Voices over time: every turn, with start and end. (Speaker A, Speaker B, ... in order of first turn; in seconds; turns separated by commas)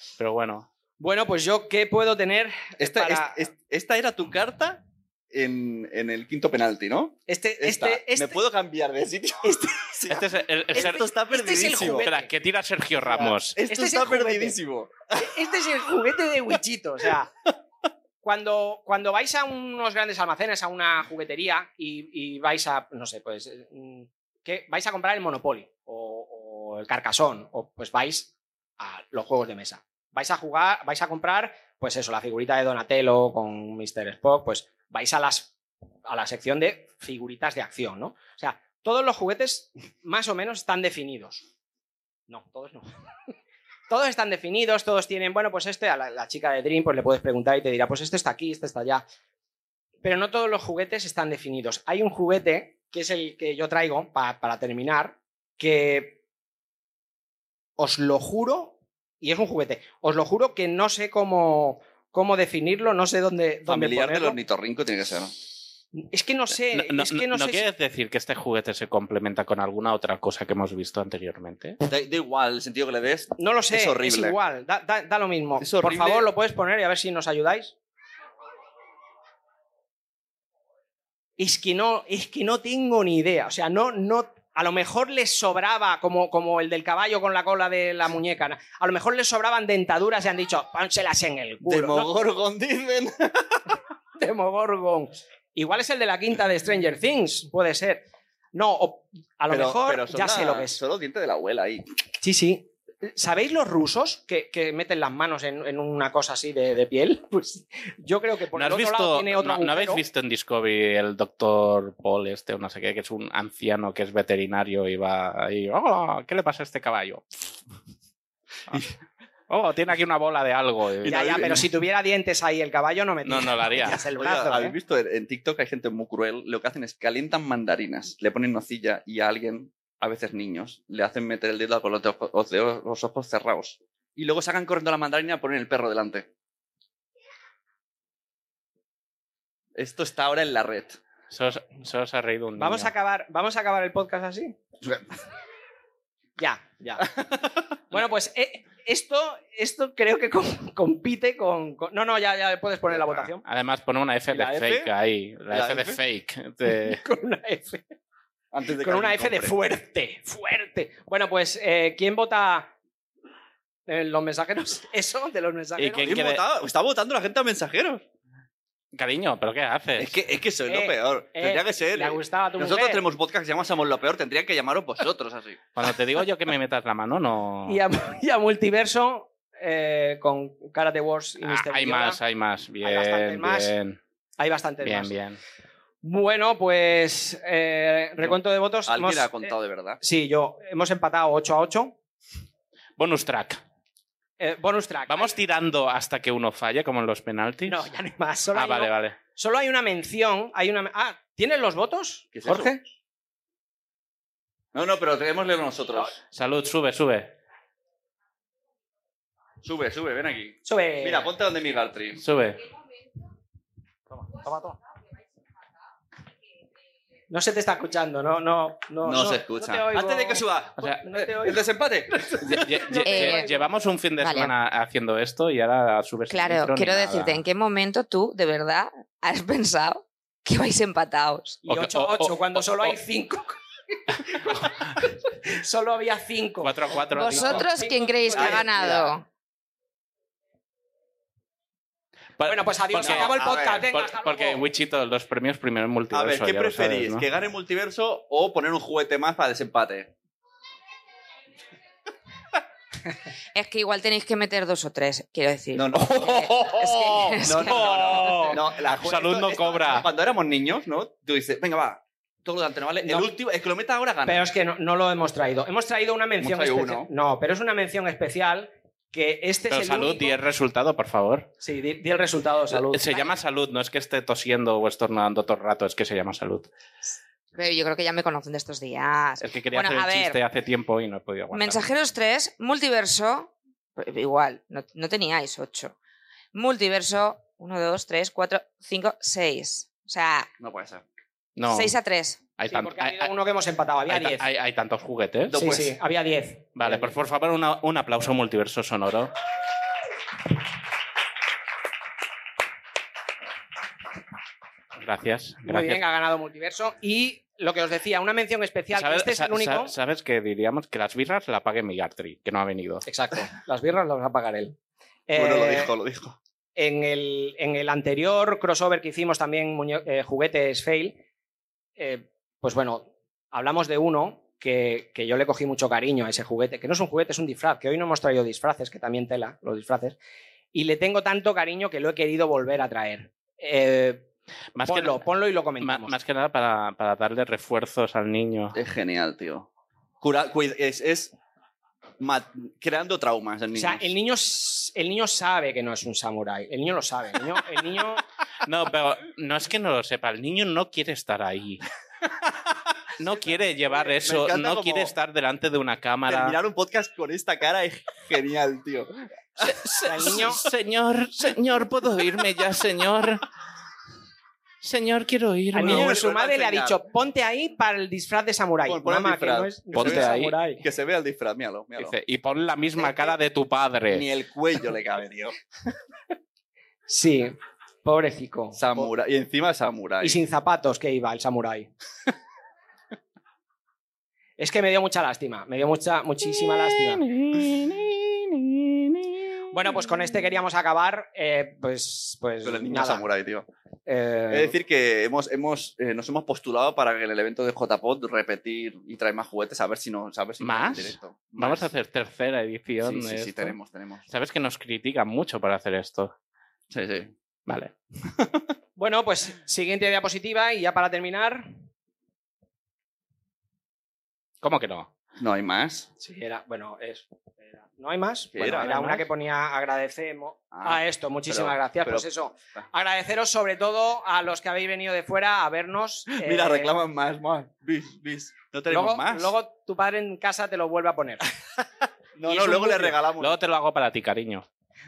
Speaker A: 0.2-0.7, Speaker B: 1.0-3.5, Speaker C: 2.8-12.1, Speaker B: 7.3-8.4, Speaker B: 9.4-10.2, Speaker A: 10.1-11.1, Speaker B: 10.7-12.3, Speaker A: 11.8-13.6, Speaker B: 13.1-14.6, Speaker C: 13.6-15.3, Speaker B: 15.2-17.3, Speaker B: 18.2-35.5, Speaker B: 36.1-41.5, Speaker B: 42.3-42.9, Speaker B: 43.9-49.0, Speaker B: 50.0-56.2, Speaker B: 57.8-64.4, Speaker C: 63.7-65.3, Speaker B: 65.9-67.7, Speaker A: 66.5-71.8, Speaker C: 71.9-74.4, Speaker B: 73.4-77.7, Speaker C: 75.6-76.3, Speaker B: 81.4-92.1, Speaker C: 91.7-93.7, Speaker B: 94.2-100.8, Speaker C: 99.5-101.9, Speaker B: 102.2-110.0, Speaker A: 108.5-117.5, Speaker A: 119.5-121.4, Speaker C: 121.0-121.7, Speaker B: 121.1-124.8, Speaker A: 123.2-124.0, Speaker C: 124.2-136.3, Speaker C: 139.8-141.0, Speaker A: 141.3-142.9, Speaker B: 142.6-144.6, Speaker B: 146.4-147.1, Speaker C: 147.0-147.6, Speaker B: 147.9-153.4, Speaker C: 152.9-153.3, Speaker A: 153.5-157.0, Speaker C: 154.3-154.9, Speaker C: 155.5-156.0, Speaker B: 156.7-157.9, Speaker C: 158.5-159.5, Speaker B: 158.8-162.7, Speaker B: 163.9-166.1, Speaker A: 165.8-166.4, Speaker C: 166.0-168.1, Speaker A: 168.9-170.1, Speaker C: 170.0-175.7, Speaker B: 170.7-173.0, Speaker A: 175.8-177.8, Speaker B: 177.7-182.2, Speaker A: 181.4-184.0, Speaker B: 182.8-183.7, Speaker B: 184.4-185.1, Speaker A: 184.8-185.4, Speaker B: 186.0-191.9, Speaker C: 188.9-190.0, Speaker A: 193.0-193.6, Speaker B: 194.4-195.3, Speaker A: 195.1-197.9, Speaker B: 197.7-202.8, Speaker A: 198.5-199.2, Speaker C: 202.3-202.8, Speaker C: 204.7-206.2, Speaker A: 206.3-207.4, Speaker C: 209.6-212.2, Speaker B: 210.7-211.3, Speaker A: 212.2-212.7, Speaker A: 214.2-214.8, Speaker B: 217.3-223.6, Speaker C: 219.0-223.0, Speaker A: 222.4-227.4, Speaker D: 223.0-223.5, Speaker D: 224.2-224.5, Speaker D: 226.3-231.6, Speaker B: 231.6-239.1, Speaker A: 231.7-233.0, Speaker A: 236.6-237.7, Speaker D: 237.1-239.2, Speaker C: 238.3-239.1, Speaker A: 242.4-247.2, Speaker B: 242.5-244.6, Speaker C: 243.0-243.9, Speaker C: 246.1-250.1, Speaker D: 253.6-258.5, Speaker C: 255.7-256.8, Speaker A: 256.0-260.1, Speaker C: 257.4-264.5, Speaker B: 263.0-263.3, Speaker B: 264.3-270.4, Speaker C: 266.4-267.1, Speaker A: 269.7-271.5, Speaker B: 271.6-273.4, Speaker A: 272.7-276.7, Speaker D: 277.6-280.4, Speaker A: 279.4-281.9, Speaker D: 281.5-285.9, Speaker D: 286.5-290.5, Speaker C: 290.6-291.0, Speaker A: 291.6-291.9, Speaker D: 291.6-292.4, Speaker A: 292.6-293.3, Speaker B: 292.7-294.5, Speaker A: 294.1-295.6, Speaker C: 295.5-295.9, Speaker B: 295.5-297.1, Speaker A: 296.8-299.3, Speaker A: 305.0-306.0, Speaker B: 305.7-309.9, Speaker A: 308.9-313.1, Speaker B: 313.1-314.8, Speaker B: 315.3-315.9, Speaker C: 315.3-316.4, Speaker B: 316.8-321.2, Speaker B: 322.0-330.2, Speaker B: 330.7-334.3, Speaker A: 334.8-335.3, Speaker B: 334.9-336.1, Speaker A: 335.8-338.8, Speaker C: 338.7-339.7, Speaker C: 340.2-341.4, Speaker C: 342.2-344.1, Speaker B: 343.8-348.2, Speaker A: 348.6-351.9, Speaker A: 353.2-356.6, Speaker C: 353.9-355.1, Speaker C: 356.3-360.5, Speaker A: 359.6-363.5, Speaker B: 360.0-360.6, Speaker A: 364.8-366.1, Speaker B: 365.7-370.8, Speaker C: 365.8-367.0, Speaker C: 368.9-372.1, Speaker A: 369.9-370.6, Speaker A: 372.0-374.3, Speaker C: 374.1-375.6, Speaker B: 377.1-379.1, Speaker C: 378.8-380.4, Speaker B: 380.2-381.9, Speaker B: 384.6-387.2, Speaker A: 386.7-390.1, Speaker B: 389.7-393.3, Speaker C: 392.6-393.7, Speaker B: 394.1-394.8, Speaker C: 394.5-401.9, Speaker A: 400.6-403.8, Speaker C: 403.0-404.2, Speaker A: 404.3-406.3, Speaker C: 406.9-407.3, Speaker A: 407.7-408.5, Speaker B: 409.0-411.7, Speaker A: 414.6-415.1, Speaker C: 415.4-416.1, Speaker B: 416.2-426.9, Speaker C: 418.5-419.0, Speaker A: 418.8-419.2, Speaker C: 420.7-422.9, Speaker C: 426.3-429.5, Speaker B: 428.9-431.4, Speaker C: 432.4-433.6, Speaker B: 432.4-433.2, Speaker A: 433.4-434.7